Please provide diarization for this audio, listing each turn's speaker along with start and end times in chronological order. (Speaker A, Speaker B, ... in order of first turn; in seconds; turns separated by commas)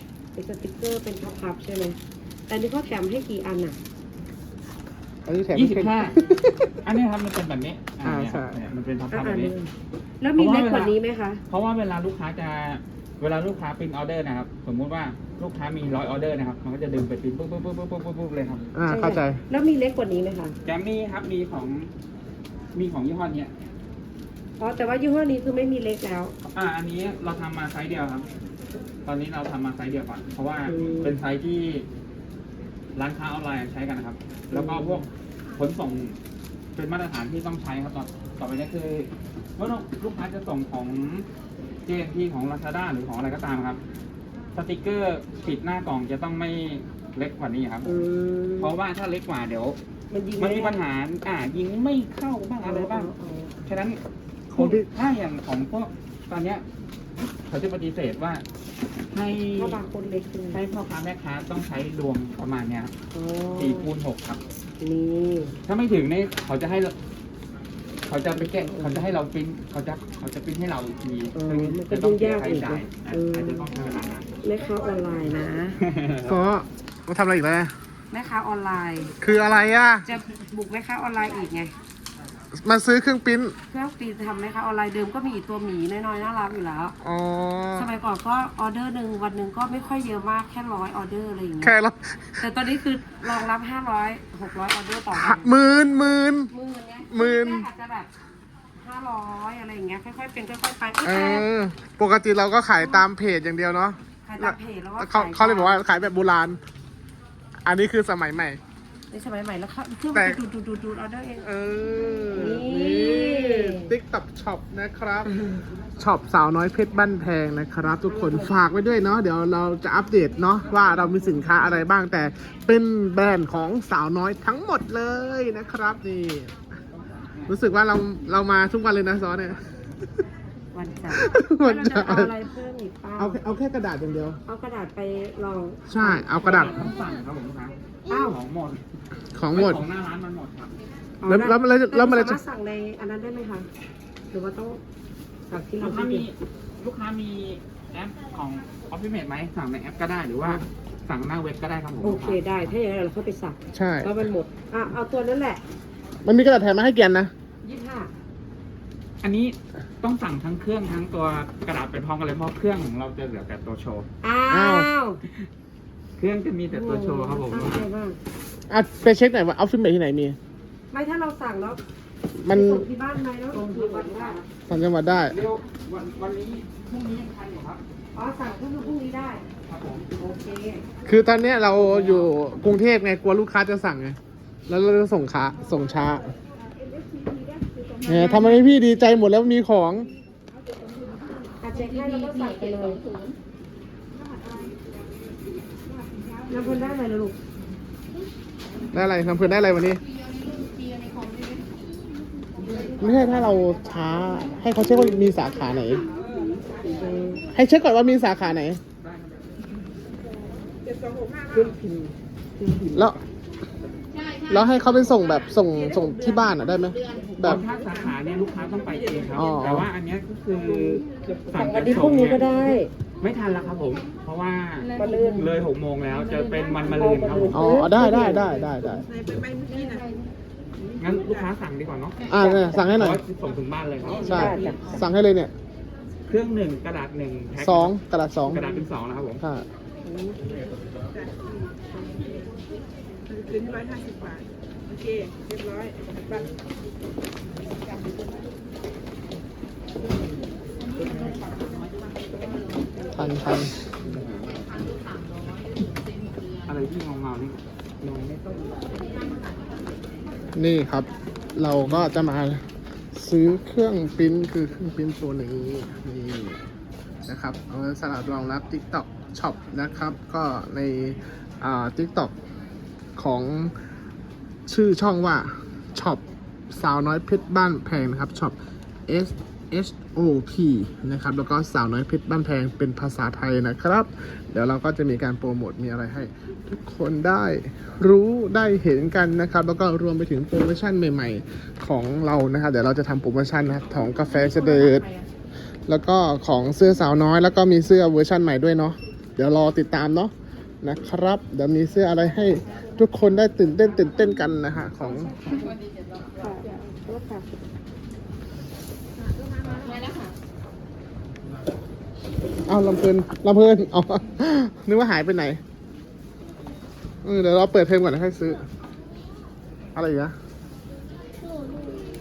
Speaker A: 0.3-3.8, Speaker B: 5.2-6.8, Speaker C: 5.5-6.2, Speaker C: 6.8-9.5, Speaker B: 8.0-8.6, Speaker A: 9.1-9.7, Speaker A: 10.2-11.4, Speaker C: 10.4-10.9, Speaker C: 11.5-18.7, Speaker B: 18.7-19.4, Speaker A: 18.9-20.6, Speaker C: 20.6-21.9, Speaker C: 22.7-23.5, Speaker A: 24.6-26.3, Speaker C: 26.5-28.2, Speaker C: 29.0-31.9, Speaker A: 30.7-31.2, Speaker C: 33.0-36.2, Speaker A: 34.5-35.0, Speaker C: 36.7-41.3, Speaker C: 41.9-43.8, Speaker C: 44.5-47.9, Speaker A: 47.8-48.7, Speaker C: 48.6-49.8, Speaker A: 50.1-50.8, Speaker C: 50.4-53.1, Speaker A: 52.6-53.6, Speaker C: 53.6-54.0, Speaker B: 54.5-54.9, Speaker C: 54.5-56.6, Speaker C: 57.5-58.4, Speaker C: 59.1-59.8, Speaker A: 59.5-60.6, Speaker C: 60.5-62.9, Speaker A: 63.1-63.9, Speaker C: 63.5-64.4, Speaker A: 64.8-65.6, Speaker C: 65.7-66.9, Speaker C: 68.1-74.3, Speaker A: 68.3-69.0, Speaker A: 71.3-73.7, Speaker A: 74.4-75.8, Speaker C: 75.8-76.4, Speaker B: 76.2-77.7, Speaker A: 78.1-79.1, Speaker B: 79.2-80.0, Speaker A: 80.0-81.7, Speaker B: 82.5-83.5, Speaker A: 83.7-87.0, Speaker B: 87.0-87.9, Speaker A: 87.7-91.8, Speaker B: 91.6-92.5, Speaker A: 92.4-95.5, Speaker B: 95.1-96.5, Speaker A: 96.5-98.1, Speaker B: 97.0-97.7, Speaker A: 98.8-101.5, Speaker B: 101.0-106.6, Speaker A: 104.2-105.8, Speaker B: 107.6-108.6, Speaker A: 109.1-111.5, Speaker B: 110.1-110.4, Speaker B: 111.4-115.3, Speaker A: 112.3-113.9, Speaker B: 116.0-126.5, Speaker A: 118.0-118.5, Speaker C: 127.2-127.5, Speaker B: 127.5-129.6, Speaker A: 130.7-133.4, Speaker B: 131.1-132.3, Speaker B: 133.2-134.4, Speaker A: 134.4-136.7, Speaker B: 135.9-136.9, Speaker C: 136.3-138.8, Speaker A: 138.1-138.4, Speaker B: 139.3-139.8, Speaker C: 139.5-140.8, Speaker A: 141.2-143.7, Speaker B: 141.2-142.4, Speaker A: 144.3-144.8, Speaker A: 145.5-146.3, Speaker C: 145.8-152.7, Speaker A: 152.0-155.6, Speaker B: 153.7-154.2, Speaker B: 156.2-157.3, Speaker A: 157.6-158.1, Speaker C: 159.2-164.1, Speaker A: 164.2-165.2, Speaker B: 164.5-164.9, Speaker C: 166.2-167.8, Speaker A: 166.7-168.2, Speaker B: 168.7-170.4, Speaker A: 170.9-171.8, Speaker B: 172.4-172.8, Speaker A: 172.5-174.4, Speaker C: 173.5-174.5, Speaker B: 174.7-175.4, Speaker C: 175.3-177.8, Speaker A: 178.1-179.4, Speaker C: 179.7-180.1, Speaker A: 180.1-180.8, Speaker B: 181.1-184.2, Speaker C: 181.9-182.3, Speaker B: 184.7-186.3, Speaker B: 188.0-190.1, Speaker A: 191.6-193.0, Speaker D: 192.9-193.3, Speaker A: 196.5-197.3, Speaker B: 198.9-200.0, Speaker B: 203.0-206.0, Speaker A: 206.8-207.4, Speaker B: 207.5-208.8, Speaker C: 209.0-209.5, Speaker D: 210.8-211.5, Speaker C: 211.5-213.3, Speaker B: 214.5-217.6, Speaker D: 217.2-217.8, Speaker C: 217.4-222.4, Speaker B: 219.3-219.9, Speaker A: 221.5-222.9, Speaker C: 223.2-227.8, Speaker A: 225.0-225.5, Speaker A: 226.8-228.5, Speaker B: 227.5-229.1, Speaker D: 228.8-230.1, Speaker C: 231.0-232.2, Speaker B: 232.3-233.2, Speaker A: 232.3-232.9, Speaker C: 232.8-235.0, Speaker A: 234.0-235.0, Speaker B: 234.2-235.5, Speaker C: 236.3-237.9, Speaker B: 237.6-238.7, Speaker C: 238.5-239.4, Speaker B: 239.4-239.7, Speaker A: 240.0-240.4, Speaker D: 241.1-241.5, Speaker D: 243.3-246.4, Speaker D: 251.1-251.6, Speaker B: 253.1-253.7, Speaker C: 254.0-254.8, Speaker C: 256.6-258.7, Speaker B: 260.6-262.6, Speaker B: 263.1-266.6, Speaker B: 267.2-272.3, Speaker B: 273.2-273.7, Speaker B: 274.7-278.5, Speaker B: 279.1-295.1, Speaker B: 295.9-305.3, Speaker A: 305.0-305.8, Speaker A: 306.4-307.5, Speaker D: 309.7-310.2, Speaker B: 312.7-315.6, Speaker B: 317.2-318.6, Speaker B: 319.9-320.3